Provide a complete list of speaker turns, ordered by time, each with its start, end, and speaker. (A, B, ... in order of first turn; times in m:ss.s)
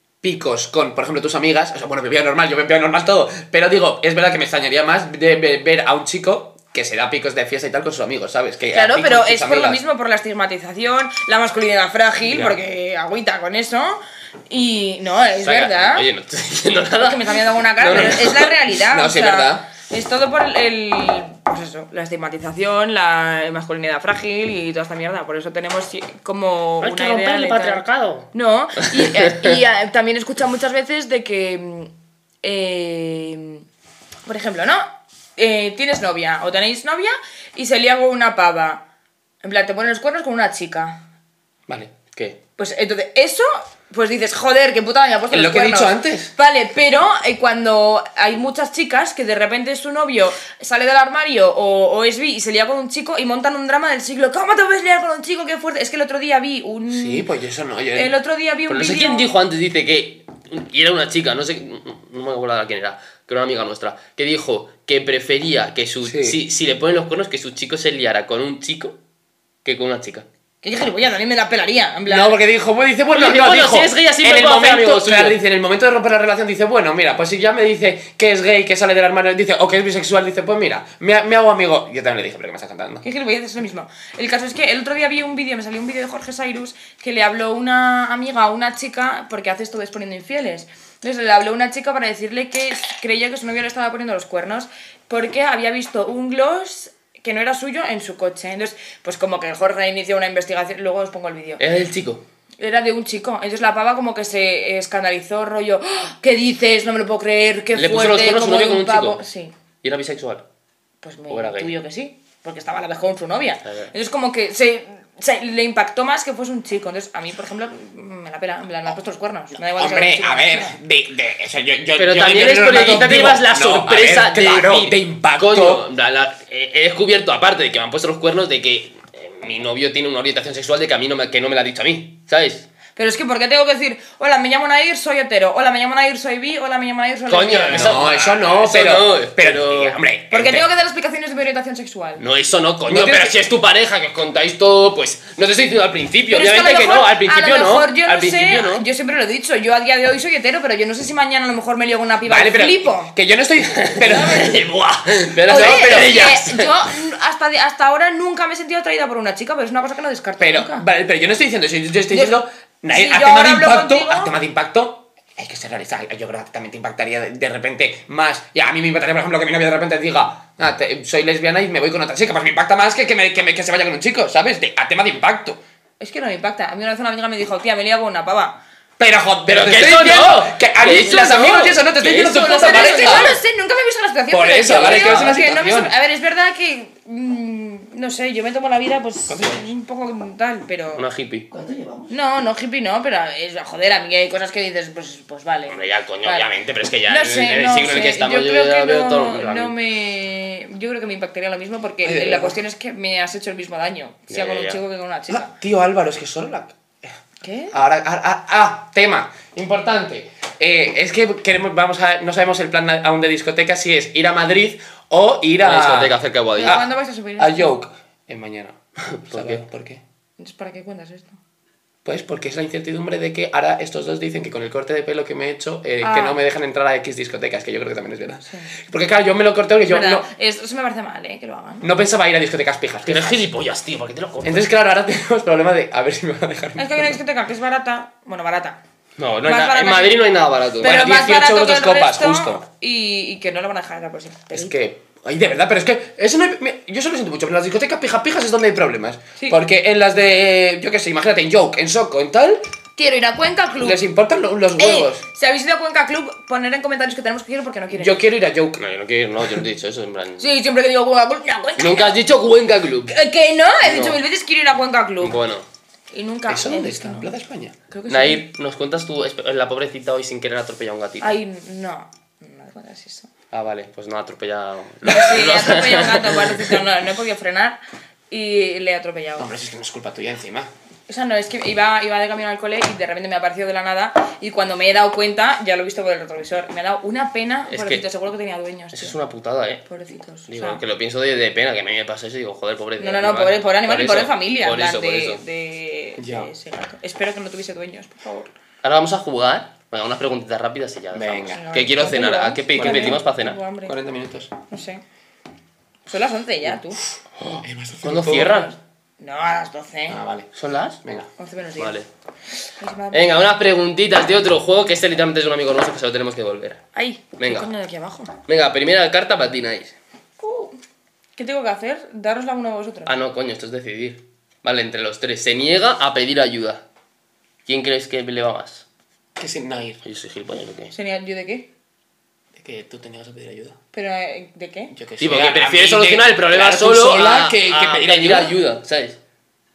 0:00.2-0:09.8 A
0:08.7-0:16.1 B
0:12.3-0:12.5 A
0:15.4-0:18.5 C
0:17.0-0:31.9 B
0:17.8-0:18.3 A
0:18.8-0:19.7 A
0:26.8-0:29.6 C
0:32.4-0:33.6 B
0:34.2-0:38.8 B
0:39.4-0:41.0 B
0:41.7-0:41.9 A
0:42.0-0:42.4 C
0:42.6-0:57.3 B
0:45.3-0:46.3 A
0:56.9-0:58.1 A
0:57.9-0:59.3 B
0:58.7-1:09.0 C
1:06.0-1:06.4 A
1:09.6-1:10.2 C
1:10.6-1:12.4 B
1:12.1-1:23.0 A
1:13.1-1:15.4 C
1:23.0-1:41.6 B
1:41.6-1:42.2 C
1:42.6-1:49.5 B
1:47.7-1:49.2 C
1:49.8-1:50.4 C
1:51.0-2:00.7 B
1:51.3-1:51.7 C
1:53.6-1:53.9 C
1:59.8-2:05.8 A
2:02.0-2:12.7 C
2:13.0-2:18.0 B
2:17.3-2:20.0 C
2:17.7-2:20.7 A
2:20.3-2:22.2 B
2:22.2-2:28.8 C
2:22.9-2:23.4 A
2:26.3-2:33.1 B
2:32.2-2:36.4 A
2:33.7-2:36.8 C
2:34.0-2:34.5 B
2:35.4-2:40.8 B
2:40.4-2:55.6 A
2:42.1-2:44.3 B
2:56.0-2:58.6 B
2:59.0-3:03.4 A
2:59.5-3:03.3 C
3:02.0-3:11.0 B
3:04.3-3:05.9 A
3:04.8-3:05.1 C
3:09.3-3:09.6 A
3:10.9-3:12.1 C
3:12.1-3:16.5 B
3:15.7-3:19.8 C
3:17.1-3:25.5 B
3:22.0-3:22.6 A
3:24.3-3:24.8 C
3:25.3-3:27.1 A
3:27.4-3:27.7 B
3:27.7-3:38.8 A
3:35.6-3:36.8 C
3:36.6-3:37.7 B
3:39.2-3:39.6 C
3:39.3-3:40.0 A
3:40.4-3:41.4 B
3:42.0-3:50.3 A
3:46.0-3:46.4 B
3:48.4-3:48.7 B
3:49.8-3:51.9 B
3:51.8-3:53.5 A
3:53.0-3:54.7 C
3:54.4-3:57.2 A
3:56.8-3:58.8 B
3:59.2-4:01.0 C
3:59.4-4:04.7 B
4:00.8-4:02.6 A
4:04.5-4:12.6 A
4:13.0-4:14.0 B
4:13.8-4:15.2 A
4:14.8-4:18.2 B
4:17.9-4:18.8 A
4:18.8-4:20.5 C
4:20.4-4:22.2 B
4:21.8-4:23.1 C
4:23.1-4:25.4 B
4:23.8-4:24.2 C
4:25.2-4:25.7 C
4:26.1-4:27.3 B
4:26.5-4:27.7 A
4:27.9-4:28.4 B
4:28.1-4:31.3 C
4:31.2-4:33.3 B
4:33.5-4:36.8 C
4:35.0-4:37.8 B
4:38.3-4:39.5 B
4:39.4-4:40.7 A
4:41.1-4:49.1 B
4:47.7-4:48.0 C
4:48.9-4:49.8 C
4:49.9-4:50.8 B
4:50.5-4:55.4 C
4:53.0-4:58.5 B
4:56.2-4:56.5 A
4:58.8-5:03.6 C
5:01.1-5:01.6 A
5:01.5-5:03.9 B
5:02.7-5:03.2 A
5:03.8-5:04.5 A
5:04.7-5:05.0 B
5:06.1-5:07.0 B
5:07.6-5:08.6 A
5:08.0-5:08.7 C
5:08.3-5:10.2 B
5:10.1-5:10.5 A
5:10.5-5:11.0 C
5:11.0-5:11.3 A
5:11.4-5:12.0 B
5:11.8-5:12.1 C
5:12.8-5:13.4 B
5:13.1-5:16.8 C
5:16.9-5:18.3 B
5:17.4-5:17.7 C
5:18.5-5:19.9 C
5:20.4-5:20.8 B
5:21.4-5:23.1 B
5:23.0-5:26.8 C
5:27.6-5:28.8 C
5:29.4-5:30.0 A
5:30.0-5:30.9 C
5:30.9-5:31.7 B
5:32.5-5:33.8 A
5:33.9-5:34.9 B
5:34.9-5:38.6 A
5:35.2-5:39.2 C